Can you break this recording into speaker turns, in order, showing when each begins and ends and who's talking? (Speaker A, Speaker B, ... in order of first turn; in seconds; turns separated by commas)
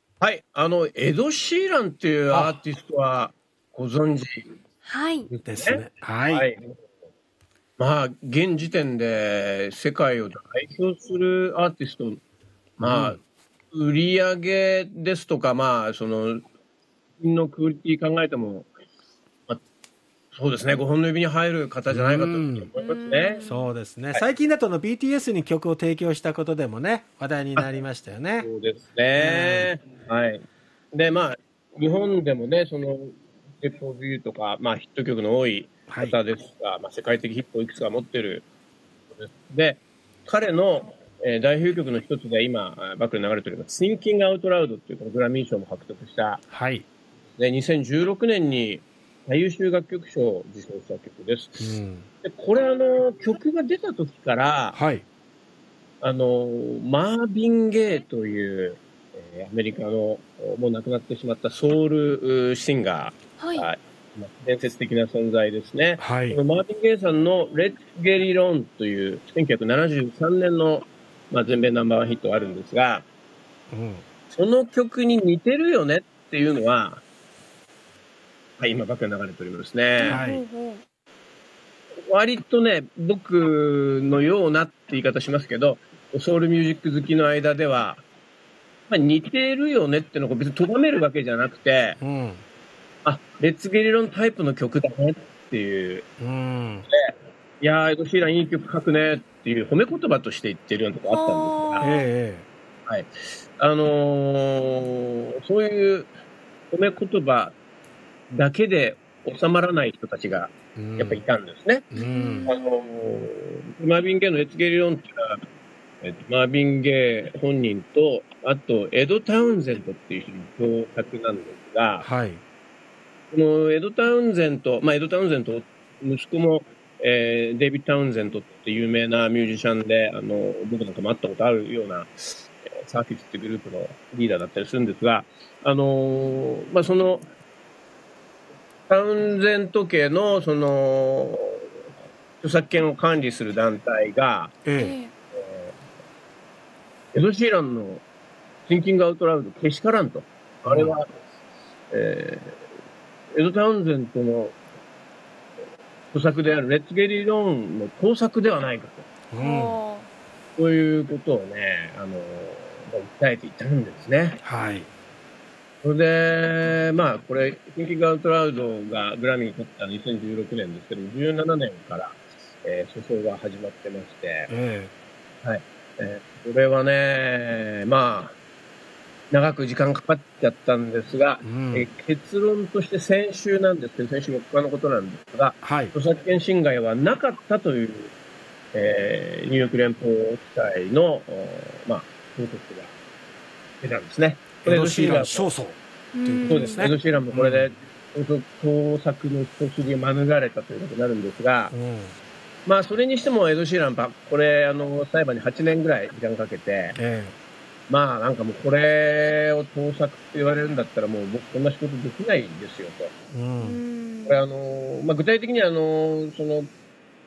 Speaker A: 0.2-4.5, Speaker B: 2.3-2.6, Speaker C: 4.8-5.3, Speaker B: 5.3-6.5, Speaker A: 5.5-6.8, Speaker A: 7.8-12.2, Speaker A: 12.8-13.2, Speaker B: 12.8-13.2, Speaker A: 13.7-16.4, Speaker A: 17.2-18.7, Speaker A: 20.3-23.4, Speaker B: 21.9-22.7, Speaker C: 22.8-23.7, Speaker B: 23.4-28.5, Speaker A: 28.4-30.4, Speaker B: 29.2-29.7, Speaker A: 30.9-38.5, Speaker B: 35.9-36.2, Speaker A: 39.1-46.4, Speaker B: 46.5-46.8, Speaker A: 47.4-54.8, Speaker B: 51.6-52.1, Speaker B: 54.7-55.0, Speaker A: 56.0-73.0, Speaker C: 63.4-63.7, Speaker B: 66.0-66.4, Speaker B: 73.7-74.0, Speaker A: 74.3-77.0, Speaker A: 78.6-80.2, Speaker C: 80.0-80.8, Speaker B: 80.0-80.4, Speaker A: 82.1-88.0, Speaker A: 88.9-92.0, Speaker B: 92.0-92.4, Speaker A: 93.0-96.1, Speaker B: 96.2-96.8, Speaker A: 97.0-101.9, Speaker C: 101.1-102.1, Speaker B: 101.8-102.5, Speaker A: 102.9-106.1, Speaker A: 106.7-107.5, Speaker A: 108.3-111.9, Speaker B: 110.8-111.2, Speaker B: 111.9-112.5, Speaker C: 111.9-112.9, Speaker A: 112.5-115.4, Speaker A: 116.0-122.0, Speaker B: 122.0-122.4, Speaker A: 123.3-137.2, Speaker A: 138.9-141.6, Speaker A: 142.4-144.5, Speaker B: 144.6-144.9, Speaker C: 144.8-145.1, Speaker A: 145.4-145.7, Speaker A: 147.1-148.0, Speaker A: 148.7-151.1, Speaker B: 150.6-150.9, Speaker A: 151.9-152.5, Speaker A: 153.3-154.6, Speaker A: 156.1-159.1, Speaker B: 159.3-159.8, Speaker C: 159.4-160.1, Speaker A: 160.6-164.4, Speaker B: 164.4-164.9, Speaker A: 165.8-174.5, Speaker B: 174.5-174.9, Speaker A: 175.4-178.3, Speaker A: 179.3-188.1, Speaker B: 181.4-181.9, Speaker B: 185.6-185.9, Speaker A: 188.7-192.9, Speaker A: 193.8-195.5, Speaker B: 194.6-197.7, Speaker C: 196.1-196.9, Speaker A: 196.5-201.7, Speaker B: 201.7-202.1, Speaker A: 202.7-207.0, Speaker B: 207.0-207.3, Speaker A: 207.9-213.1, Speaker B: 213.3-213.8, Speaker C: 213.6-214.4, Speaker A: 214.2-216.7